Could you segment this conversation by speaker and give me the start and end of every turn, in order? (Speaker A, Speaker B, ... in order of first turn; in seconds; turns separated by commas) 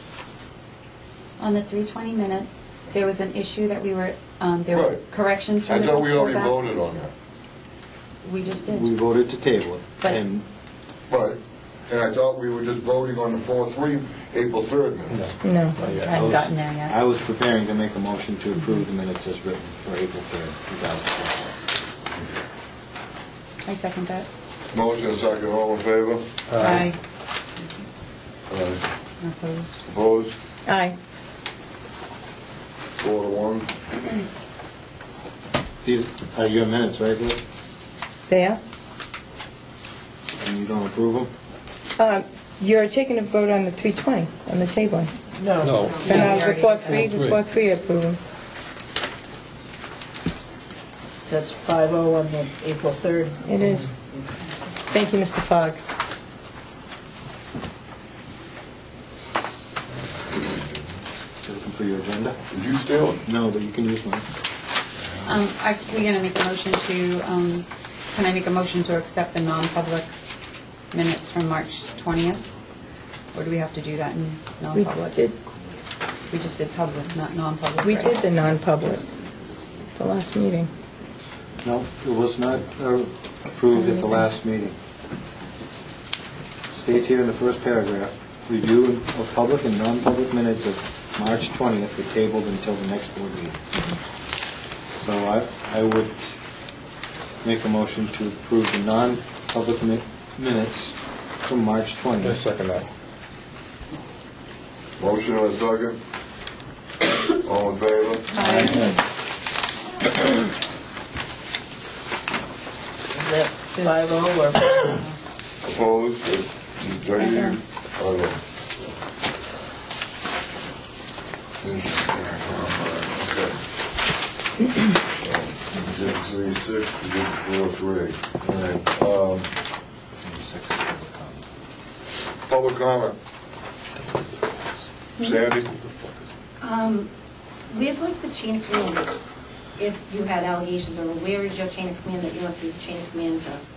Speaker A: 1.4-6.6, Speaker B: 4.7-5.1, Speaker B: 5.7-7.1, Speaker A: 8.2-8.9, Speaker C: 8.7-10.4, Speaker B: 11.1-15.4, Speaker D: 15.1-16.2, Speaker E: 15.4-15.8, Speaker A: 15.9-16.9, Speaker C: 16.1-21.6, Speaker A: 23.6-24.3, Speaker B: 24.7-26.3, Speaker D: 26.5-26.9, Speaker A: 26.6-27.0, Speaker B: 28.5-28.8, Speaker A: 29.2-29.8, Speaker B: 29.9-30.4, Speaker E: 30.7-31.0, Speaker B: 33.0-33.7, Speaker C: 35.8-37.4, Speaker E: 38.3-38.6, Speaker C: 40.4-41.3, Speaker E: 42.8-45.1, Speaker F: 45.4-46.3, Speaker D: 45.6-46.1, Speaker A: 45.8-47.1, Speaker E: 46.1-48.1, Speaker D: 46.8-47.4, Speaker F: 51.2-53.8, Speaker D: 53.6-53.9, Speaker E: 54.9-55.8, Speaker B: 60.4-60.6, Speaker C: 61.4-62.4, Speaker B: 62.5-63.2, Speaker C: 63.2-64.3, Speaker A: 65.2-70.1, Speaker A: 70.9-72.4, Speaker A: 73.3-75.3, Speaker E: 74.8-75.3, Speaker A: 76.3-78.2, Speaker E: 77.8-79.0, Speaker E: 80.0-80.7, Speaker C: 81.6-84.8, Speaker C: 86.7-93.6, Speaker C: 95.0-96.4, Speaker C: 97.4-102.4, Speaker D: 102.2-102.9, Speaker B: 105.0-106.0, Speaker B: 107.4-108.3, Speaker A: 108.3-109.0, Speaker C: 108.5-108.8, Speaker F: 113.1-115.0, Speaker A: 113.7-115.2, Speaker B: 115.6-118.4, Speaker B: 121.6-123.6, Speaker B: 125.2-129.5, Speaker C: 125.7-126.3, Speaker C: 130.2-131.4, Speaker B: 132.4-133.2, Speaker C: 134.1-134.6, Speaker B: 135.2-135.7, Speaker C: 135.3-136.3, Speaker G: 136.6-137.1, Speaker G: 137.7-139.1, Speaker G: 139.8-143.6